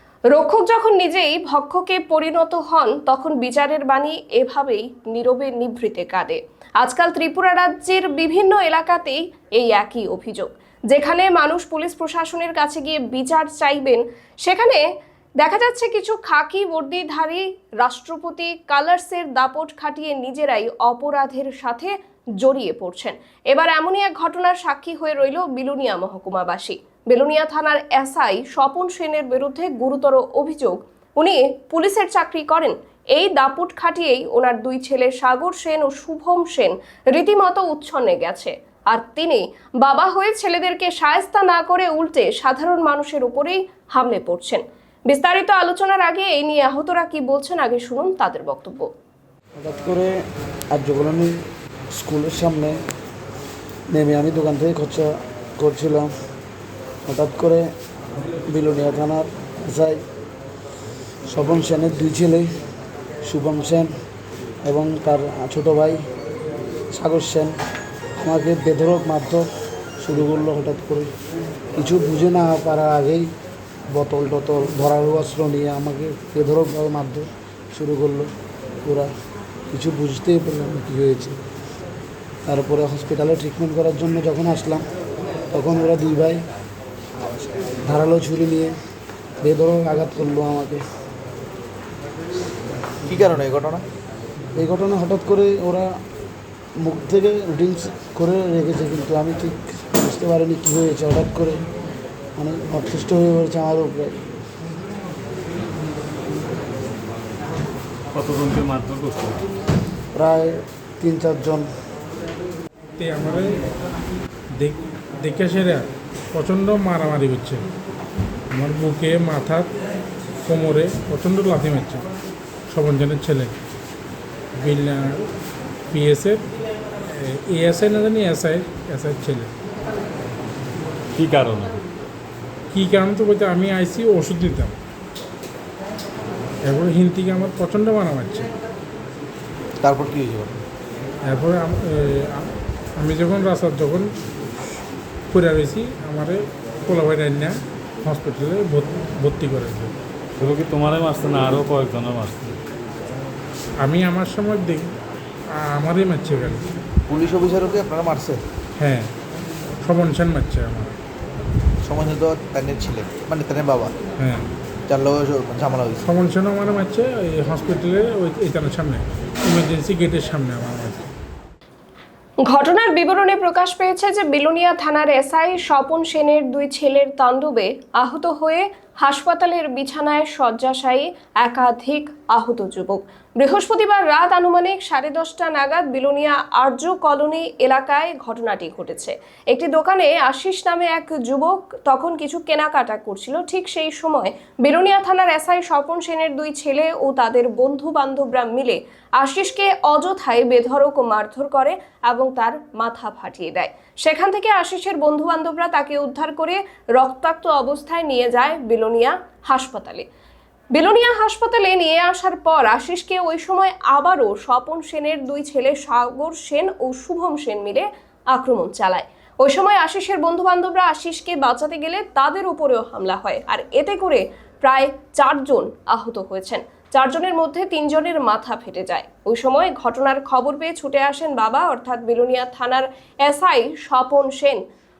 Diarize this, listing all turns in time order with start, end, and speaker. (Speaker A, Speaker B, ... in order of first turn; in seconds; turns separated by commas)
Speaker A: 0.3-14.8, Speaker A: 15.4-48.9, Speaker B: 49.6-50.1, Speaker B: 50.7-51.4, Speaker B: 52.0-52.8, Speaker B: 53.9-56.1, Speaker B: 57.1-57.6, Speaker B: 58.4-60.0, Speaker B: 61.3-62.5, Speaker B: 63.2-63.9, Speaker B: 64.6-66.0, Speaker B: 66.9-67.5, Speaker B: 68.2-69.5, Speaker B: 70.0-71.1, Speaker B: 71.8-73.3, Speaker B: 73.9-78.3, Speaker B: 78.8-79.1, Speaker B: 79.7-81.4, Speaker B: 82.5-84.8, Speaker B: 85.5-86.4, Speaker B: 87.8-88.7, Speaker B: 89.4-90.8, Speaker C: 93.0-93.8, Speaker B: 94.5-95.9, Speaker B: 96.8-101.6, Speaker B: 102.4-104.2, Speaker D: 108.1-109.4, Speaker B: 110.2-111.7, Speaker E: 113.0-113.5, Speaker E: 114.6-117.6, Speaker E: 118.5-119.7, Speaker E: 120.4-122.0, Speaker E: 122.7-123.5, Speaker E: 124.6-125.2, Speaker E: 125.9-126.4, Speaker E: 127.1-129.5, Speaker D: 131.2-131.8, Speaker E: 132.7-134.7, Speaker E: 136.6-138.5, Speaker C: 139.8-140.6, Speaker E: 141.2-144.1, Speaker E: 145.3-149.9, Speaker D: 150.4-152.6, Speaker E: 153.8-154.9, Speaker E: 155.5-156.6, Speaker C: 157.1-158.4, Speaker E: 158.8-159.1, Speaker E: 159.8-160.9, Speaker C: 161.8-163.9, Speaker E: 164.2-164.4, Speaker C: 164.9-166.0, Speaker E: 166.0-171.0, Speaker A: 172.4-210.1, Speaker A: 210.7-234.6